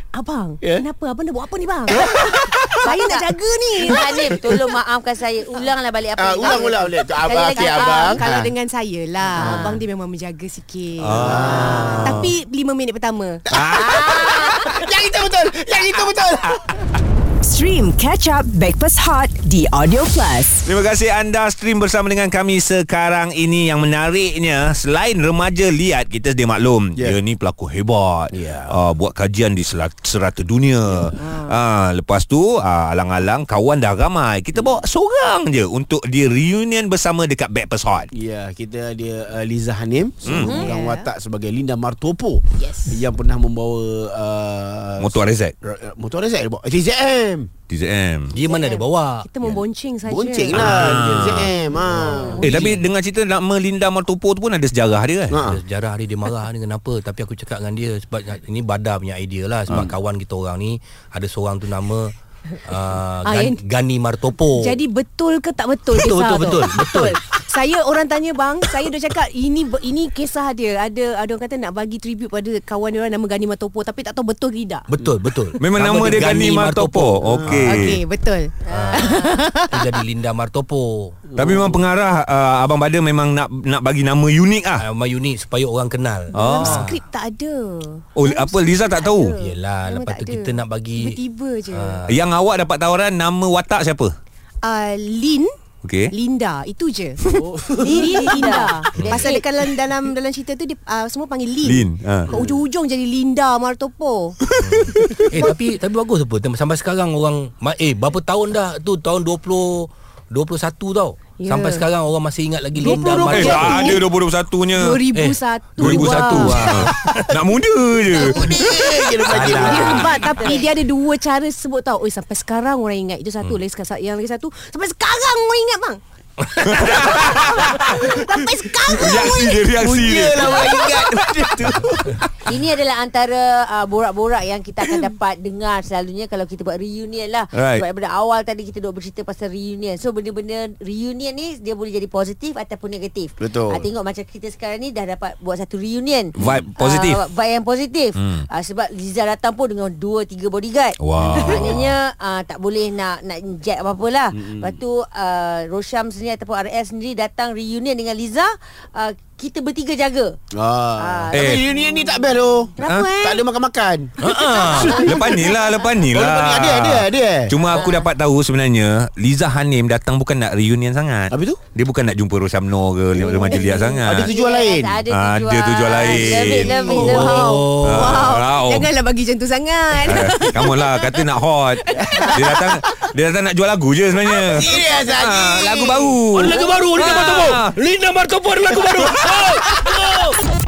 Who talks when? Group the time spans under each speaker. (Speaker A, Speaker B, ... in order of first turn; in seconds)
Speaker A: 0.1-4.5, 7.5-13.4, 40.5-41.1, 42.6-43.0, 48.4-50.8, 51.4-52.7, 63.2-63.6, 64.6-74.9, 77.4-79.9, 86.3-92.1, 94.6-95.5, 96.1-97.2, 97.8-104.4, 111.4-111.9, 112.8-114.1, 114.7-116.6, 119.3-126.0, 126.9-129.7, 130.4-130.8, 177.0-182.6
Speaker B: 2.8-3.3, 3.8-8.2, 9.3-9.8, 11.4-12.2, 13.8-14.4, 40.3-40.7, 78.7-79.5, 97.7-99.5, 132.5-160.4, 161.0-162.3, 162.8-163.4, 164.3-165.8, 167.7-168.1, 173.1-177.6
Speaker C: 6.2-8.5, 9.4-9.8, 11.1-12.3, 13.5-16.8, 28.3-28.8, 34.5-34.8, 38.1-47.5, 50.1-52.5, 55.3-55.6, 77.3-77.7, 81.4-81.8, 97.3-98.7, 116.4-116.9, 118.1-120.6, 129.8-132.3, 143.4-143.9, 151.2-151.9, 154.3-154.8, 160.5-164.1, 164.8-165.6, 166.1-167.8, 171.3-171.6, 173.2-175.0, 176.0-177.5, 182.2-182.9, 184.4-186.2
Speaker D: 11.0-12.3, 13.5-14.3, 20.6-38.1, 40.2-40.5, 45.0-45.5, 47.7-48.4, 50.5-51.5, 52.4-55.4, 75.6-78.0, 81.4-84.8, 86.3-86.9, 88.2-89.4, 92.1-94.1, 95.8-96.1, 101.6-102.3, 113.2-115.1, 115.8-118.9, 119.5-120.1, 126.7-127.8, 128.8-130.8, 137.6-137.8, 146.4-147.2, 148.2-148.4, 151.0-151.9, 161.3-161.6, 162.8-163.1, 164.2-174.3, 175.1-178.9, 180.0-187.7
Speaker E: 17.4-20.6
Speaker F: 48.3-49.6, 52.0-52.8, 55.5-62.1, 62.6-64.8, 65.9-67.2, 74.9-77.6, 78.7-81.2, 84.8-87.0, 89.4-91.2, 91.7-92.1, 99.0-99.3, 104.6-114.0, 115.1-117.2, 119.3-120.6, 126.4-126.8, 164.5-164.8, 177.3-177.8, 186.3-190.4